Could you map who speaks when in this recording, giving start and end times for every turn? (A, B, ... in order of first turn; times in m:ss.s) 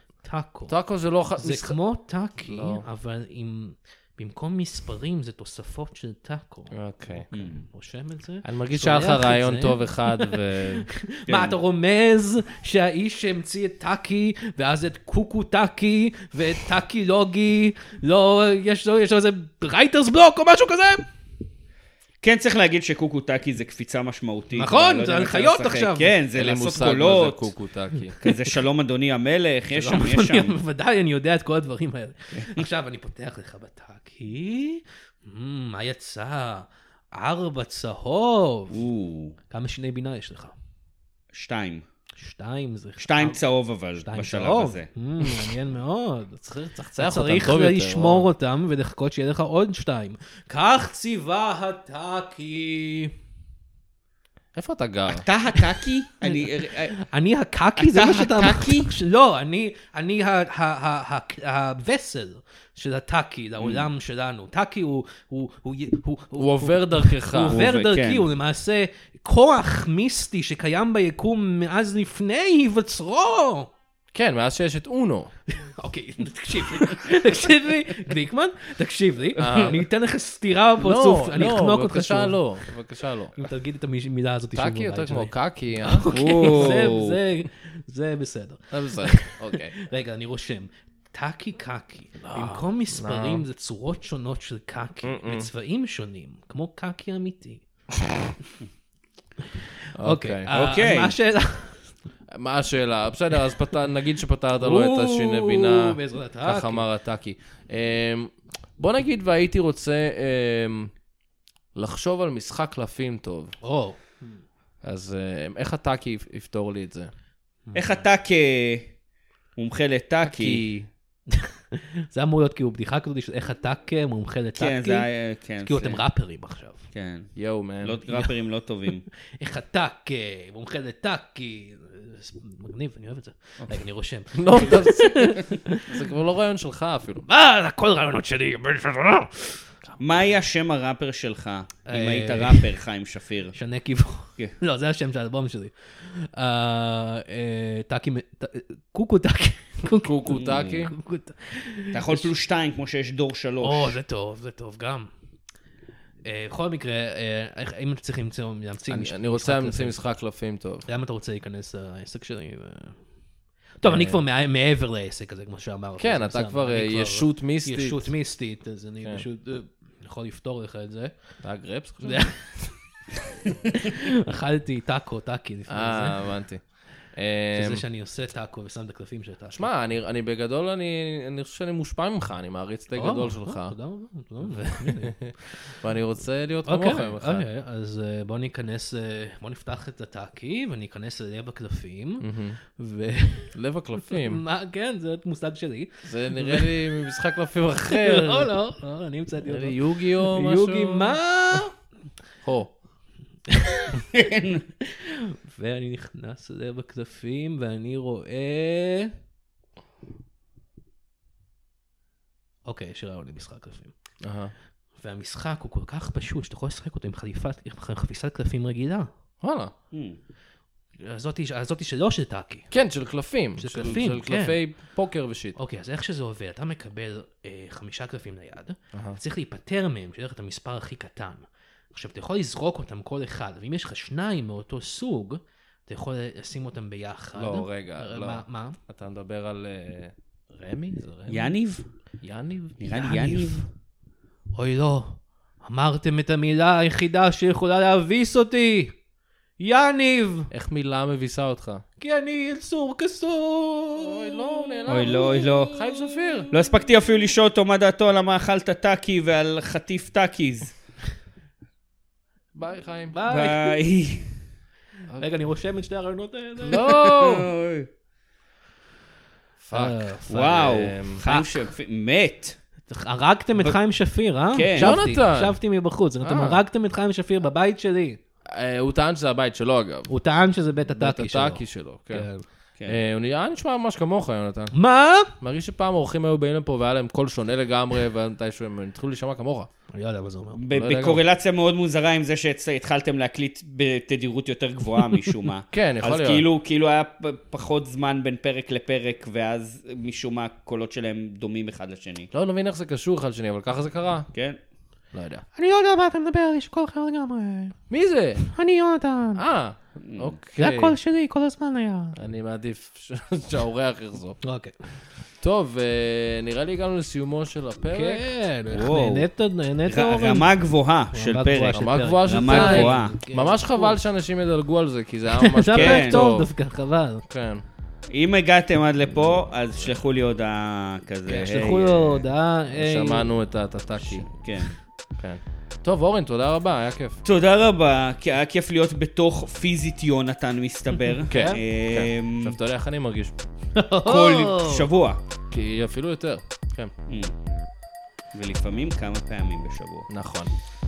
0:00.2-0:00.8 A
0:00.7-0:01.8 B
0:01.4-0:06.7 A
0:02.4-0:02.9 B
0:06.7-0:07.3 B
0:07.2-0:21.1 A
0:07.3-0:07.6 C
0:08.4-0:11.5 B
0:22.2-0:27.5 C
0:24.6-0:26.1 A
0:26.3-0:28.2 B
0:28.2-0:30.6 C
0:29.7-0:38.8 A
0:38.7-0:39.4 C
0:39.5-0:40.5 A
0:41.3-0:41.8 C
0:42.2-0:43.4 A
0:43.0-0:44.9 C
0:44.0-0:53.1 A
0:46.5-0:48.3 B
0:54.6-0:55.3 B
0:55.1-0:57.0 C
0:57.0-1:13.7 A
0:57.8-0:58.9 C
1:03.6-1:03.9 C
1:06.4-1:07.6 B
1:07.5-1:08.3 C
1:14.1-1:15.3 B
1:15.5-1:22.4 A
1:19.4-1:19.8 B
1:20.8-1:23.4 B
1:23.4-1:37.6 A
1:24.6-1:26.8 B
1:26.1-1:27.2 C
1:28.7-1:29.8 B
1:32.2-1:33.4 B
1:35.0-1:35.5 B
1:39.6-1:41.9 A
1:40.0-1:40.5 B
1:40.5-1:41.2 C
1:42.3-1:50.9 B
1:44.6-1:46.9 A
1:51.8-1:53.6 B
1:53.6-1:54.4 A
1:54.8-1:57.1 B
1:57.7-1:58.0 A
1:57.8-1:58.9 C
1:59.6-2:00.6 C
2:00.2-2:00.9 B
2:01.3-2:05.1 A
2:04.6-2:06.0 C
2:05.6-2:06.8 A
2:06.9-2:09.0 C
2:07.4-2:08.0 B
2:09.3-2:16.0 A
2:14.3-2:17.2 B
2:17.3-2:19.6 A
2:20.0-2:23.6 C
2:21.9-2:22.7 A
2:23.6-2:32.3 A
2:29.9-2:30.9 B
2:30.3-2:30.9 C
2:31.9-2:34.0 C
2:33.6-2:35.1 A
2:36.2-2:40.0 A
2:38.9-2:40.9 B
2:40.9-2:43.0 A
2:43.8-2:51.1 A
2:43.9-2:44.2 B
2:46.0-2:48.1 B
2:51.4-2:52.7 B
2:52.0-2:52.5 A
2:53.5-2:56.2 A
2:55.7-2:57.8 B
2:57.5-2:59.7 A
2:59.5-3:03.8 B
3:03.0-3:05.8 A
3:04.4-3:07.5 B
3:06.7-3:13.6 A
3:12.2-3:12.6 B
3:13.5-3:14.4 B
3:14.1-3:17.0 A
3:16.1-3:18.5 B
3:17.8-3:21.7 A
3:19.5-3:21.6 B
3:22.4-3:22.7 B
3:23.5-3:24.0 A
3:24.1-3:24.6 C
3:24.8-3:29.1 A
3:32.7-3:33.9 A
3:34.2-3:34.5 B
3:35.0-3:39.1 A
3:39.4-3:39.7 B
3:39.9-3:40.2 C
3:41.0-3:42.7 A
3:42.7-3:45.6 B
3:43.6-3:44.6 A
3:45.6-3:58.8 A
3:48.9-3:49.2 B
3:57.4-4:01.5 B
4:01.3-4:01.8 C
4:02.2-4:02.8 B
4:02.8-4:03.6 C
4:02.9-4:03.7 A
4:04.5-4:08.9 A
4:09.6-4:10.5 A
4:10.5-4:11.8 B
4:12.0-4:16.5 A
4:14.0-4:16.5 B
4:14.9-4:15.8 C
4:16.5-4:20.7 C
4:22.5-4:23.2 B
4:23.1-4:23.8 A
4:23.3-4:24.4 C
4:25.2-4:26.8 A
4:26.6-4:27.5 B
4:26.7-4:27.9 C
4:29.6-4:31.2 B
4:29.7-4:30.7 A
4:30.3-4:32.6 C
4:31.2-4:31.7 A
4:32.9-4:38.2 A
4:34.5-4:35.0 C
4:34.8-4:35.6 B
4:36.2-4:36.6 B
4:38.5-4:40.1 B
4:40.1-4:42.4 A
4:40.9-4:42.3 B
4:42.9-4:44.7 B
4:44.7-4:45.3 A
4:45.4-4:49.7 B
4:49.9-4:50.6 A
4:50.6-5:02.3 C
4:50.7-4:51.2 B
4:55.7-4:56.5 B
5:02.3-5:04.3 B
5:04.3-5:04.6 C
5:05.1-5:05.4 B
5:05.6-5:07.8 A
5:07.9-5:08.5 B
5:08.4-5:09.4 A
5:09.4-5:11.0 B
5:10.0-5:10.4 C
5:10.6-5:12.2 A
5:12.2-5:14.4 B
5:14.4-5:14.7 A
5:15.4-5:18.3 B
5:17.9-5:20.5 A
5:18.7-5:19.3 C
5:19.8-5:23.2 C
5:21.1-5:24.0 A
5:21.7-5:26.5 B
5:25.4-5:27.2 A
5:25.7-5:26.3 C
5:27.3-5:27.6 B
5:28.1-5:32.2 C
5:31.3-5:33.3 A
5:32.7-5:34.3 B
5:34.0-5:34.8 C
5:35.2-5:37.2 B
5:37.2-5:42.6 C
5:41.3-5:43.4 B
5:41.3-5:41.6 A
5:43.8-5:44.9 A
5:44.0-5:45.2 C
5:45.5-5:46.9 B
5:47.1-5:47.3 C
5:48.3-5:50.1 C
5:50.1-5:50.5 B